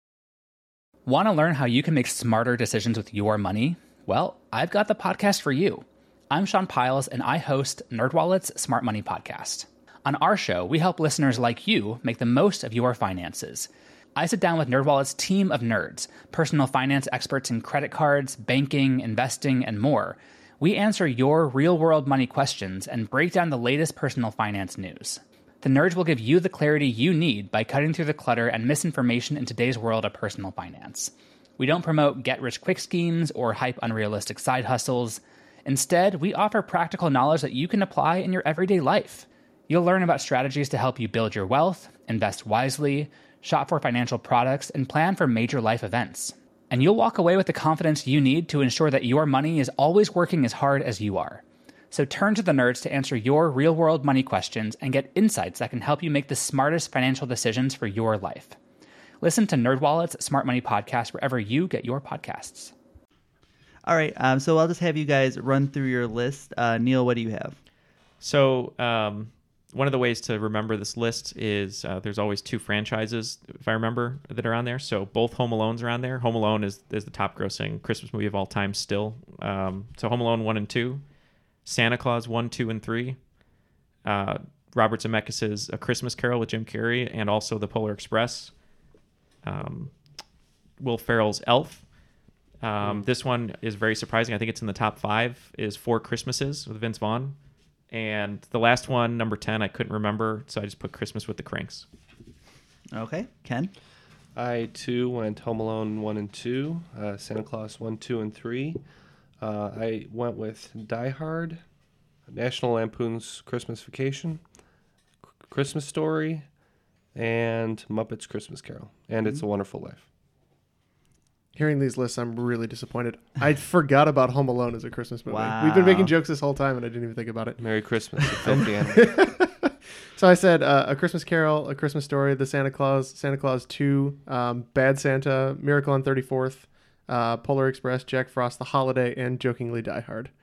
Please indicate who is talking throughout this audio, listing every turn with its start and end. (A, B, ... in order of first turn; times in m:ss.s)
0:01.0-0:58.6 A
0:59.2-1:02.7 A
1:03.8-1:07.6 B
1:08.2-1:21.0 C
1:21.6-1:23.2 C
1:24.0-1:28.5 C
1:29.4-1:29.9 C
1:30.8-1:31.8 C
1:32.6-1:37.4 C
1:32.8-1:33.1 D
1:37.9-1:41.8 C
1:42.9-1:43.7 B
1:44.3-1:48.8 D
1:49.4-1:51.6 D
1:52.3-1:54.4 D
1:55.4-1:56.5 D
1:57.1-2:00.0 D
2:01.5-2:20.3 E
2:05.3-2:06.1 B
2:07.6-2:09.0 D